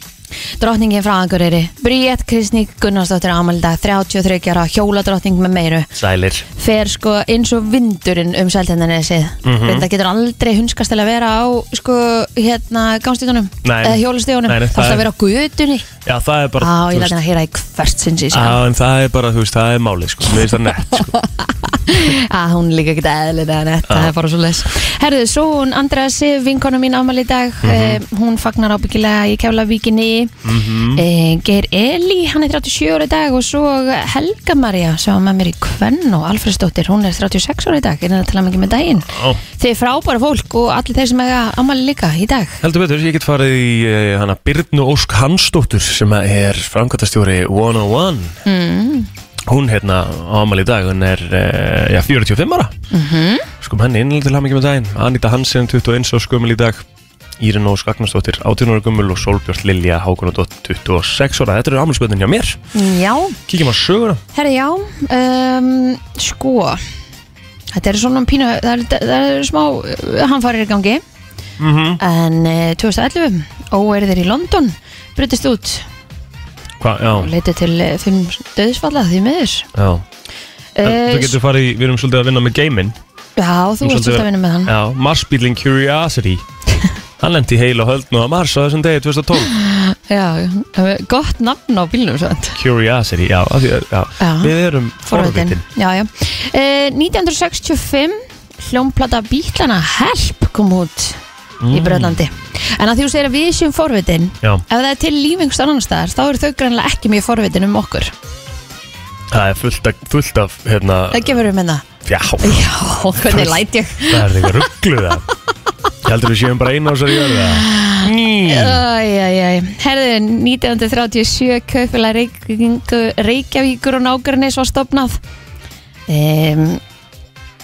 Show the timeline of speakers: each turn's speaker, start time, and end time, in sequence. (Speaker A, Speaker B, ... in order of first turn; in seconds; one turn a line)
Speaker A: 0.6-5.9
Speaker B: 6.0-6.5
Speaker A: 6.6-15.9
Speaker B: 9.4-9.9
Speaker B: 13.6-15.1
Speaker B: 16.0-17.1
Speaker A: 16.6-18.6
Speaker B: 18.3-21.1
Speaker A: 20.9-30.3
Speaker B: 23.9-24.1
Speaker B: 27.6-28.0
Speaker B: 30.4-31.0
Speaker A: 30.9-42.6
Speaker B: 39.1-39.4
Speaker B: 42.6-48.4
Speaker A: 48.5-49.1
Speaker B: 49.5-52.7
Speaker A: 52.9-53.5
Speaker B: 53.6-56.8
Speaker B: 57.4-62.6
Speaker A: 62.7-63.4
Speaker B: 63.5-64.2
Speaker A: 64.3-66.8
Speaker A: 67.7-71.0
Speaker B: 71.6-72.0
Speaker A: 72.0-75.8
Speaker B: 76.8-77.3
Speaker A: 77.1-79.7
Speaker B: 79.7-80.0
Speaker A: 80.8-81.4
Speaker B: 80.8-83.0
Speaker A: 83.4-84.7
Speaker B: 83.8-86.4
Speaker B: 87.2-89.5
Speaker A: 89.4-92.6
Speaker B: 92.6-95.6
Speaker A: 94.2-94.5
Speaker A: 95.0-108.1
Speaker B: 101.6-102.2
Speaker B: 109.3-111.4
Speaker A: 111.1-111.8
Speaker B: 112.0-112.7
Speaker A: 112.4-114.7
Speaker B: 113.2-115.2
Speaker B: 116.0-118.8
Speaker A: 117.2-125.2
Speaker A: 126.1-126.8